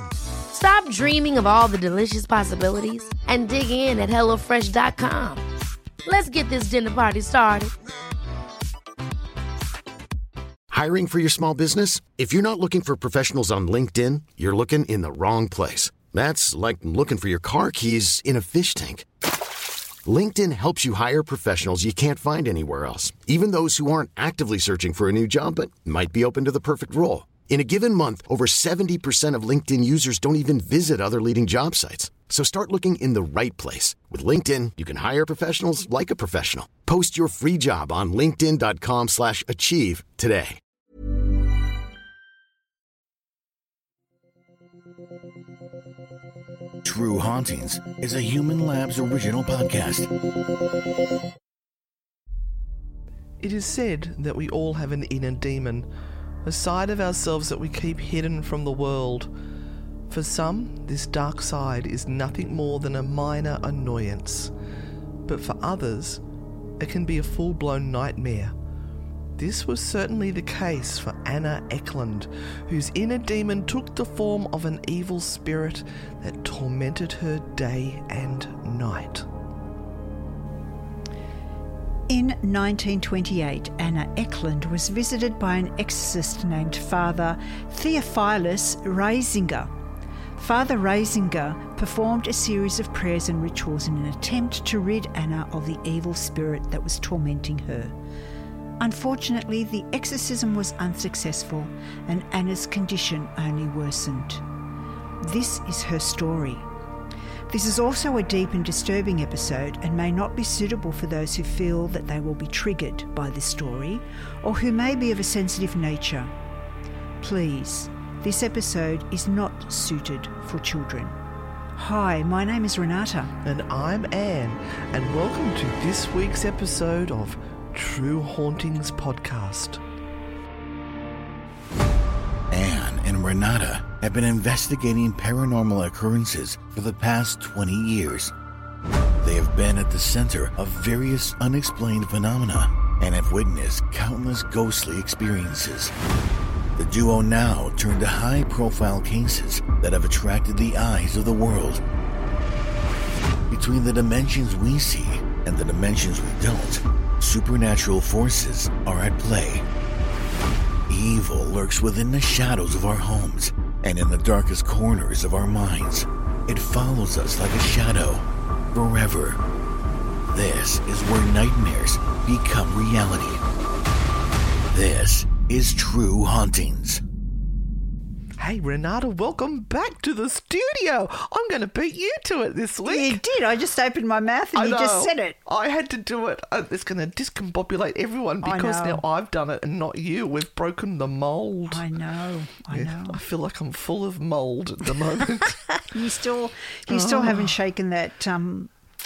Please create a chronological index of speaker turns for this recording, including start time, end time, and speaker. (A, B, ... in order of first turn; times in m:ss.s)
0:00.5-0:05.4 A
0:06.0-0:07.7 A
0:10.7-0:19.1 B
0:20.0-0:40.6 B
0:46.8-0:50.1 C
0:53.4-0:55.9 D
0:56.4-0:59.3 D
1:00.1-1:04.5 D
1:05.3-1:06.2 D
1:06.8-1:08.6 D
1:09.4-1:19.3 D
1:22.1-1:29.7 E
1:30.4-1:37.9 E
1:38.8-1:44.4 E
1:45.2-1:46.7 E
1:47.5-1:56.3 E
1:57.2-2:01.2 E
2:01.8-2:03.3 E
2:03.4-2:09.8 D
2:12.5-2:18.3 C
2:19.2-2:25.9 C
2:26.8-2:31.8 C
2:33.5-2:39.6 C
2:40.9-2:49.4 C
2:50.3-2:53.4 C
2:54.7-2:57.0 C
2:58.4-3:03.2 D
3:02.8-3:05.4 E
3:04.5-3:11.8 D
3:08.4-3:09.0 E
3:11.7-3:13.2 E
3:12.7-3:15.8 D
3:15.9-3:18.7 E
3:16.9-3:17.6 D